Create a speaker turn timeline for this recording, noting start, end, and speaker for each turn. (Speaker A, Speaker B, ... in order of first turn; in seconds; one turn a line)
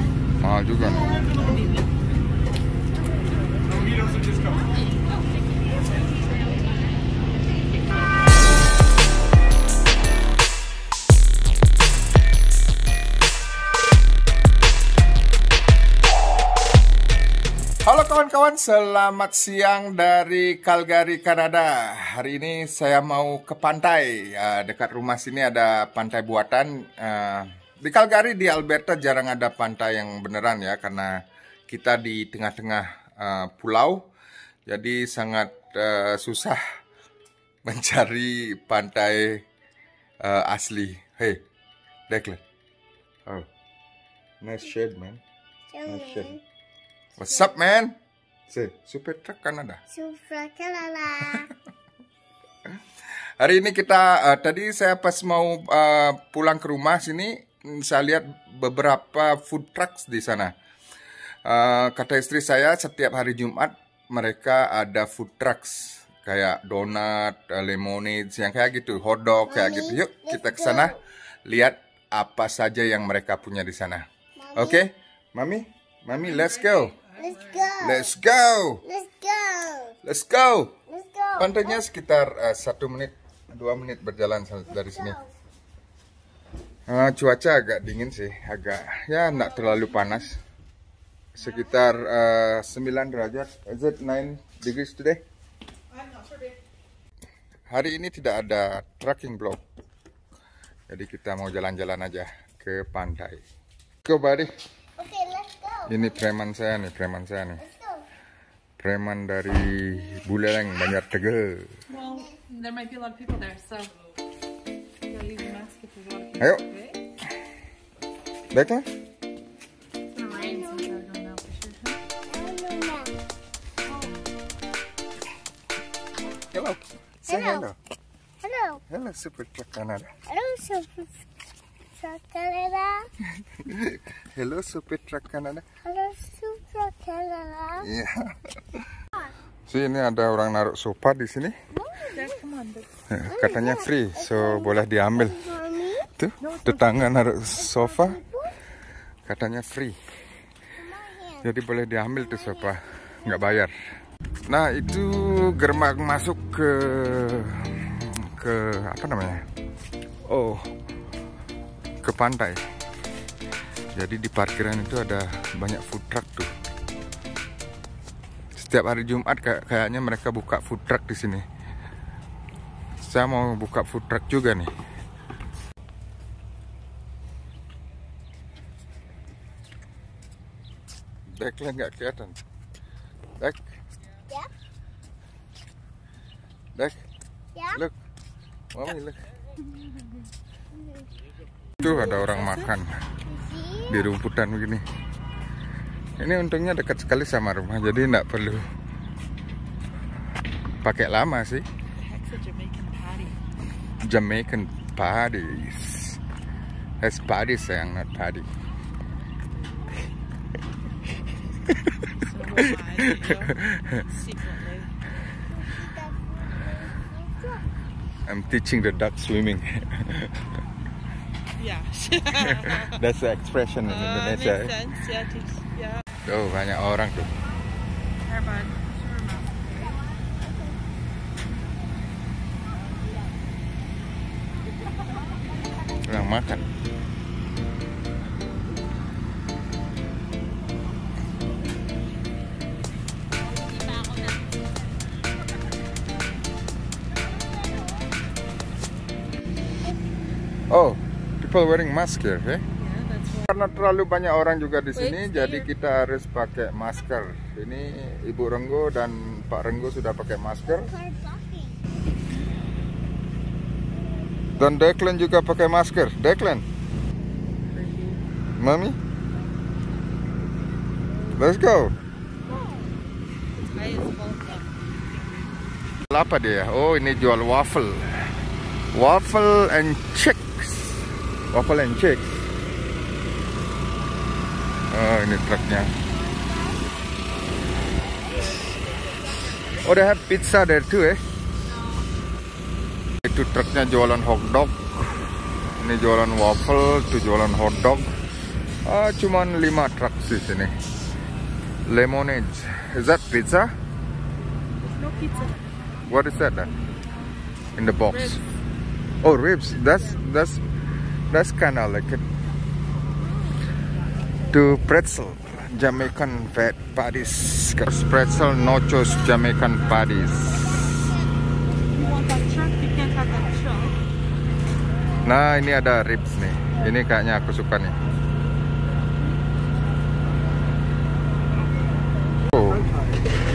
Speaker A: 0.4-1.1
Speaker B: 1.4-1.9
Speaker A: 17.8-31.1
Speaker A: 31.7-34.1
Speaker A: 34.7-36.6
Speaker A: 37.6-39.5
Speaker A: 40.2-41.4
Speaker A: 42.1-42.4
Speaker A: 44.4-45.2
Speaker C: 45.7-46.4
Speaker A: 45.9-46.4
Speaker A: 47.2-48.0
Speaker A: 48.5-49.8
Speaker C: 49.9-51.5
Speaker A: 53.4-60.5
Speaker A: 61.5-77.0
Speaker C: 69.5-71.0
Speaker C: 74.4-74.8
Speaker B: 76.1-77.7
Speaker C: 77.2-78.1
Speaker A: 77.8-78.8
Speaker C: 78.8-80.0
Speaker A: 80.0-80.8
Speaker C: 80.9-81.8
Speaker A: 81.4-85.2
Speaker C: 84.8-85.3
Speaker A: 86.9-90.4
Speaker A: 91.3-95.2
Speaker B: 95.9-96.6
Speaker A: 97.7-99.6
Speaker A: 100.9-103.4
Speaker A: 104.0-104.5
Speaker C: 105.0-106.1
Speaker A: 105.9-107.6
Speaker C: 107.6-108.0
Speaker A: 108.8-111.7
Speaker B: 111.9-113.9
Speaker C: 112.0-112.3
Speaker B: 115.1-117.0
Speaker A: 116.4-116.7
Speaker A: 118.5-118.9
Speaker C: 120.2-121.0
Speaker B: 120.2-122.0
Speaker C: 122.3-123.1
Speaker B: 123.9-124.2
Speaker A: 126.5-127.8
Speaker C: 127.3-127.7
Speaker C: 128.4-128.8
Speaker A: 128.9-130.1
Speaker C: 130.3-131.2
Speaker C: 132.0-133.1
Speaker A: 133.4-135.7
Speaker C: 135.8-137.9
Speaker A: 137.8-138.8
Speaker A: 139.7-141.5
Speaker C: 141.7-142.4
Speaker B: 142.1-142.9
Speaker A: 143.1-145.4
Speaker C: 143.3-146.1
Speaker A: 146.2-148.2
Speaker B: 146.4-146.9
Speaker C: 147.6-148.6
Speaker A: 149.3-150.0
Speaker C: 150.8-151.5
Speaker A: 151.4-153.8
Speaker A: 154.5-159.4
Speaker A: 160.2-160.7
Speaker A: 162.0-162.6
Speaker A: 163.9-166.5
Speaker A: 168.6-171.4
Speaker A: 173.1-174.7
Speaker A: 181.4-182.4
Speaker C: 187.6-187.8
Speaker A: 188.7-189.2
Speaker C: 190.8-191.0
Speaker A: 191.8-193.0
Speaker B: 191.8-192.7
Speaker C: 193.3-194.1
Speaker A: 193.9-194.8
Speaker A: 196.2-198.7
Speaker A: 200.8-201.7
Speaker B: 202.0-203.4
Speaker A: 204.0-206.2
Speaker A: 207.0-208.5
Speaker B: 212.1-214.9
Speaker A: 212.6-214.0
Speaker C: 215.5-217.7
Speaker A: 218.3-220.5
Speaker B: 221.6-223.0
Speaker A: 222.7-224.8
Speaker B: 223.8-226.0
Speaker A: 226.2-227.3
Speaker B: 228.3-230.0
Speaker A: 236.0-236.6
Speaker B: 243.5-244.5
Speaker C: 247.4-248.0
Speaker A: 250.7-252.6
Speaker B: 252.8-253.5
Speaker A: 253.5-260.9
Speaker B: 254.9-255.7
Speaker C: 260.7-261.8
Speaker A: 264.6-266.6
Speaker B: 267.7-268.2
Speaker A: 268.6-269.0
Speaker A: 271.4-271.9
Speaker B: 273.5-274.7
Speaker A: 276.1-278.3
Speaker A: 278.9-282.4
Speaker A: 284.9-285.9
Speaker C: 285.9-287.0
Speaker C: 288.0-289.3
Speaker A: 289.8-291.2
Speaker A: 293.2-295.2
Speaker A: 295.8-298.1
Speaker A: 298.9-300.7
Speaker A: 301.9-303.7
Speaker B: 304.8-305.6
Speaker A: 306.1-306.7
Speaker A: 307.8-308.4
Speaker B: 308.1-308.4
Speaker A: 309.2-310.6
Speaker A: 311.3-312.2
Speaker A: 314.5-320.9
Speaker B: 321.9-324.0
Speaker A: 325.2-328.0
Speaker A: 332.5-332.8